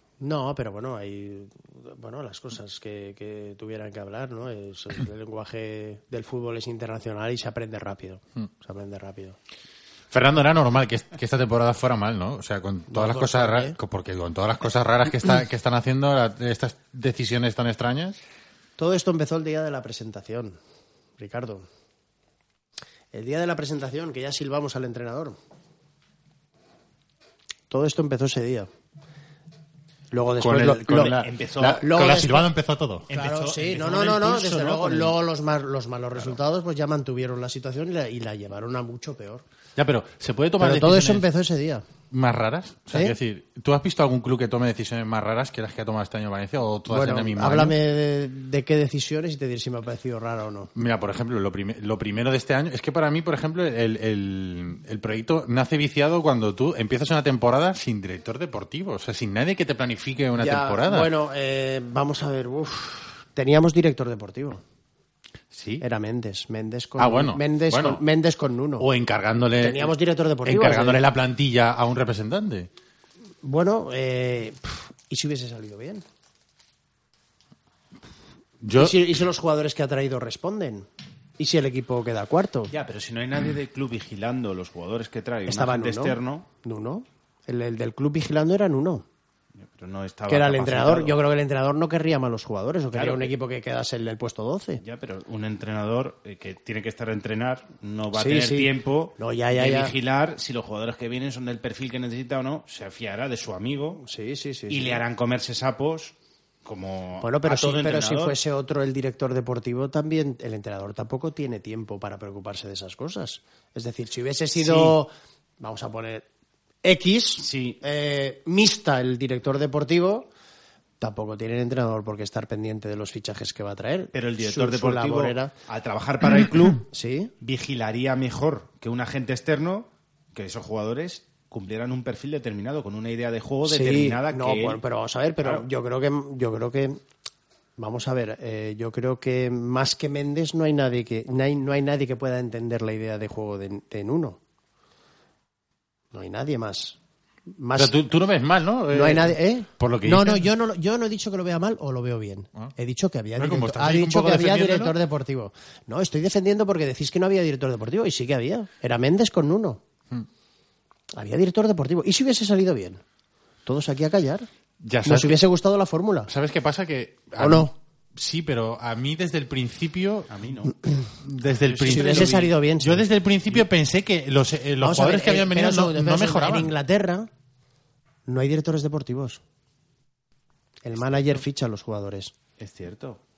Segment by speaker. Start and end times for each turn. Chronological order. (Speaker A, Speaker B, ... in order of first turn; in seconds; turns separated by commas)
Speaker A: 0.2-9.4, Speaker B: 10.1-18.2, Speaker A: 12.9-13.8, Speaker A: 18.8-20.6, Speaker A: 21.2-21.6, Speaker A: 23.1-25.4, Speaker A: 27.7-28.7, Speaker A: 30.1-32.5, Speaker B: 30.4-33.1, Speaker C: 31.0-31.8, Speaker C: 33.1-35.1, Speaker A: 33.1-39.4, Speaker B: 39.8-41.3, Speaker A: 40.6-41.8, Speaker B: 42.1-47.8, Speaker A: 46.9-50.7, Speaker B: 50.8-61.1, Speaker A: 60.4-64.6, Speaker B: 65.5-65.8, Speaker A: 65.8-68.9, Speaker B: 67.0-68.0, Speaker B: 68.8-69.9, Speaker A: 69.6-71.0, Speaker B: 70.5-72.7, Speaker A: 73.4-76.0, Speaker B: 78.6-79.0, Speaker A: 78.8-82.7, Speaker C: 82.7-86.5, Speaker A: 85.5-89.0, Speaker C: 89.6-91.2, Speaker A: 90.3-94.8, Speaker C: 92.9-93.3, Speaker C: 94.8-104.0, Speaker A: 98.1-99.9, Speaker A: 104.0-105.0, Speaker C: 104.7-108.4, Speaker A: 107.2-116.2, Speaker C: 114.6-115.0, Speaker A: 116.8-120.3, Speaker C: 117.4-117.8, Speaker A: 121.0-125.5, Speaker C: 124.1-126.9, Speaker A: 126.9-127.3, Speaker C: 127.4-134.8, Speaker A: 133.7-137.0, Speaker C: 135.4-135.7, Speaker A: 137.8-144.4, Speaker A: 146.1-147.0, Speaker A: 147.6-147.9, Speaker B: 147.8-150.5, Speaker A: 148.9-159.8, Speaker B: 153.4-155.0, Speaker A: 161.2-163.0, Speaker A: 163.7-164.5, Speaker B: 164.8-165.4, Speaker A: 165.1-166.3, Speaker B: 166.3-170.3, Speaker A: 167.4-167.7, Speaker C: 170.3-170.8, Speaker B: 171.2-176.7, Speaker C: 171.7-172.5, Speaker A: 171.8-173.1, Speaker A: 174.8-177.3, Speaker A: 178.3-179.4, Speaker A: 180.8-182.3, Speaker C: 182.6-183.2